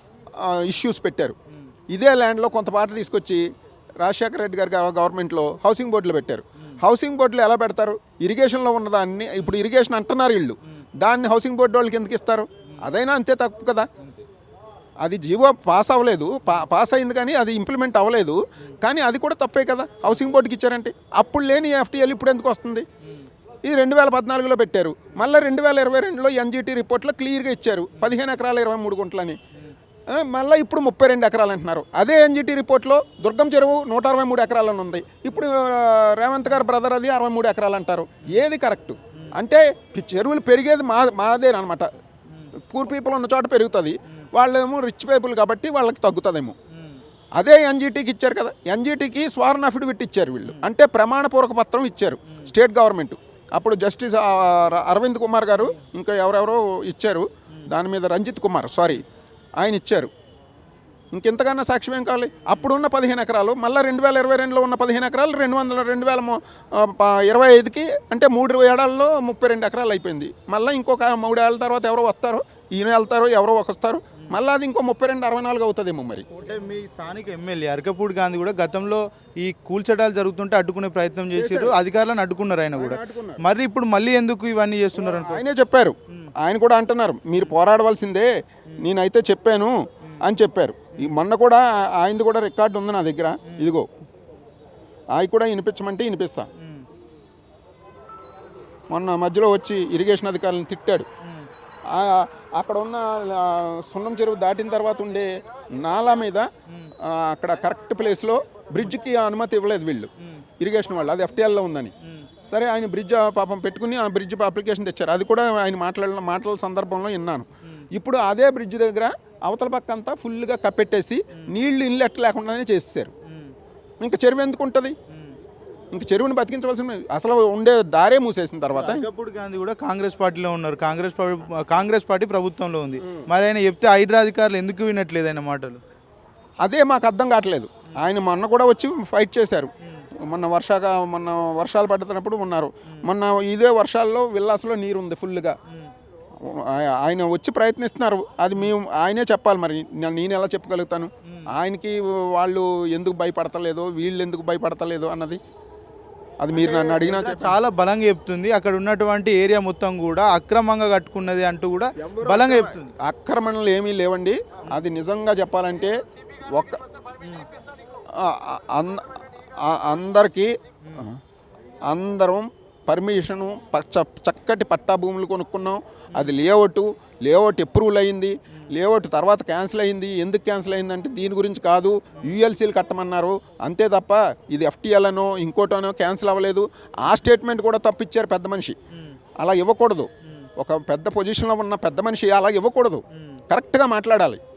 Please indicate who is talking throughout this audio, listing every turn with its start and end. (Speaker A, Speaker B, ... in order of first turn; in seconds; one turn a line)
Speaker A: 0.4-1.4
Speaker A: 1.9-3.4
Speaker A: 4.0-13.9
Speaker B: 14.0-14.2
Speaker A: 15.0-22.9
Speaker A: 23.6-29.4
Speaker A: 30.1-41.9
Speaker A: 42.6-46.5
Speaker B: 46.7-47.0
Speaker A: 47.4-59.0
Speaker A: 59.6-60.1
Speaker A: 61.1-76.3
Speaker B: 76.3-85.4
Speaker A: 81.3-81.8
Speaker A: 82.8-83.4
Speaker A: 85.0-93.9
Speaker A: 95.2-96.5
Speaker B: 96.6-96.9
Speaker A: 98.9-101.1
Speaker B: 101.2-101.5
Speaker A: 101.9-106.5
Speaker B: 106.7-106.9
Speaker A: 107.0-111.9
Speaker B: 112.0-112.3
Speaker A: 112.4-123.1
Speaker B: 123.3-123.5
Speaker A: 124.0-125.0
Speaker B: 125.1-125.4
Speaker A: 125.9-129.1
Speaker B: 128.7-135.8
Speaker A: 133.0-133.3
Speaker A: 136.6-145.6
Speaker A: 146.4-155.4
Speaker A: 156.4-157.6
Speaker B: 156.5-162.9
Speaker A: 162.0-166.8
Speaker A: 168.1-171.2
Speaker A: 171.9-188.8
Speaker B: 188.9-189.2
Speaker A: 189.4-194.4
Speaker B: 190.2-190.5
Speaker B: 193.1-193.4